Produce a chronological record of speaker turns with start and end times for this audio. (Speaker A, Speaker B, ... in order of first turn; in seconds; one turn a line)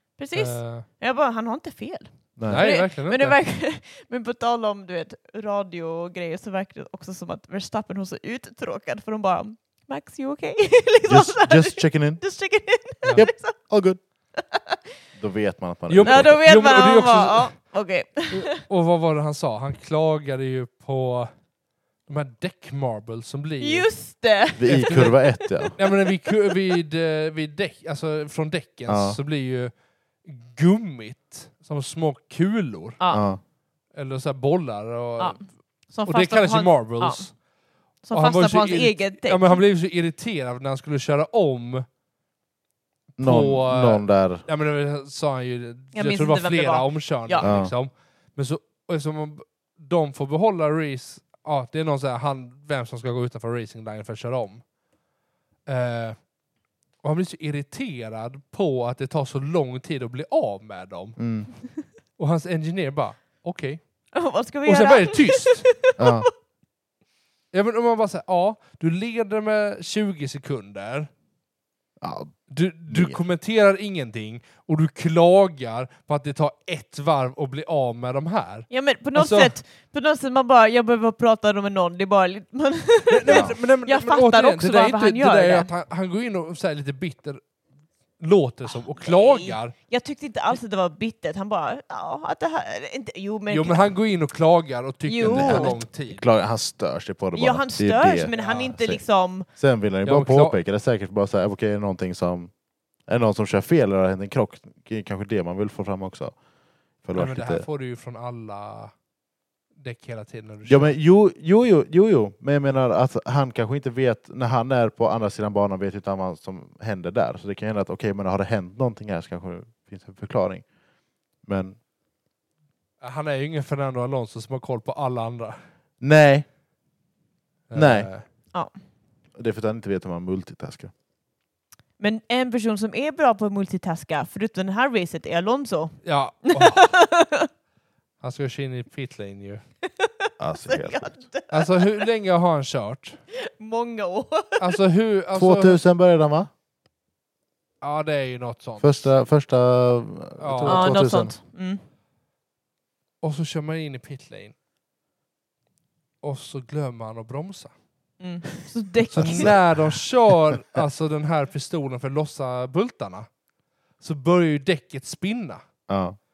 Speaker A: 0.2-13.7
Speaker B: 0.3-0.8
Speaker C: 2.4-2.6
Speaker B: 2.5-3.4
Speaker C: 11.1-12.2
Speaker C: 13.1-14.0
Speaker A: 14.3-14.8
Speaker C: 15.2-16.3
Speaker B: 15.9-17.5
Speaker A: 16.0-18.6
Speaker B: 18.3-21.3
Speaker B: 22.1-23.9
Speaker A: 23.6-26.6
Speaker C: 24.6-25.8
Speaker B: 24.6-25.2
Speaker B: 25.8-29.7
Speaker C: 28.9-29.2
Speaker B: 30.2-33.0
Speaker A: 33.0-33.2
Speaker C: 33.1-33.4
Speaker B: 33.9-35.4
Speaker A: 35.9-37.3
Speaker B: 36.0-37.3
Speaker A: 38.0-39.6
Speaker B: 38.1-41.9
Speaker B: 43.1-54.6
Speaker C: 43.2-44.4
Speaker A: 45.9-47.5
Speaker C: 47.4-47.7
Speaker B: 55.7-56.2
Speaker B: 57.0-61.2
Speaker C: 61.2-61.5
Speaker B: 62.2-63.8
Speaker A: 64.1-66.3
Speaker B: 64.6-65.7
Speaker C: 66.0-66.3
Speaker B: 67.5-71.1
Speaker C: 72.0-73.2
Speaker B: 72.5-79.5
Speaker A: 78.7-85.7
Speaker B: 83.1-87.4
Speaker C: 83.3-83.5
Speaker B: 88.2-89.7
Speaker A: 88.7-93.9
Speaker B: 93.5-96.2
Speaker A: 95.1-95.8
Speaker C: 95.2-99.0
Speaker A: 97.3-99.5
Speaker B: 98.3-98.7
Speaker C: 99.6-102.5
Speaker B: 100.0-100.6
Speaker C: 103.1-106.3
Speaker C: 107.0-107.6
Speaker B: 107.1-108.9
Speaker B: 109.8-111.0
Speaker C: 110.7-120.6
Speaker C: 121.4-121.8
Speaker B: 123.0-125.6
Speaker C: 126.0-126.5
Speaker B: 127.7-128.2
Speaker C: 127.7-128.1
Speaker C: 129.3-130.9
Speaker A: 132.0-137.5
Speaker B: 136.0-136.9
Speaker B: 138.2-139.6
Speaker A: 139.8-142.0
Speaker C: 140.4-141.2
Speaker B: 141.5-143.2
Speaker A: 143.3-144.8
Speaker B: 144.6-145.8
Speaker C: 145.3-146.5
Speaker B: 147.8-149.1
Speaker C: 148.8-151.3
Speaker B: 150.4-151.0
Speaker A: 150.6-151.8
Speaker B: 153.2-154.5
Speaker B: 156.2-157.7
Speaker A: 158.2-159.5
Speaker B: 159.1-163.3
Speaker C: 159.2-159.9
Speaker B: 164.0-165.7
Speaker C: 165.9-166.2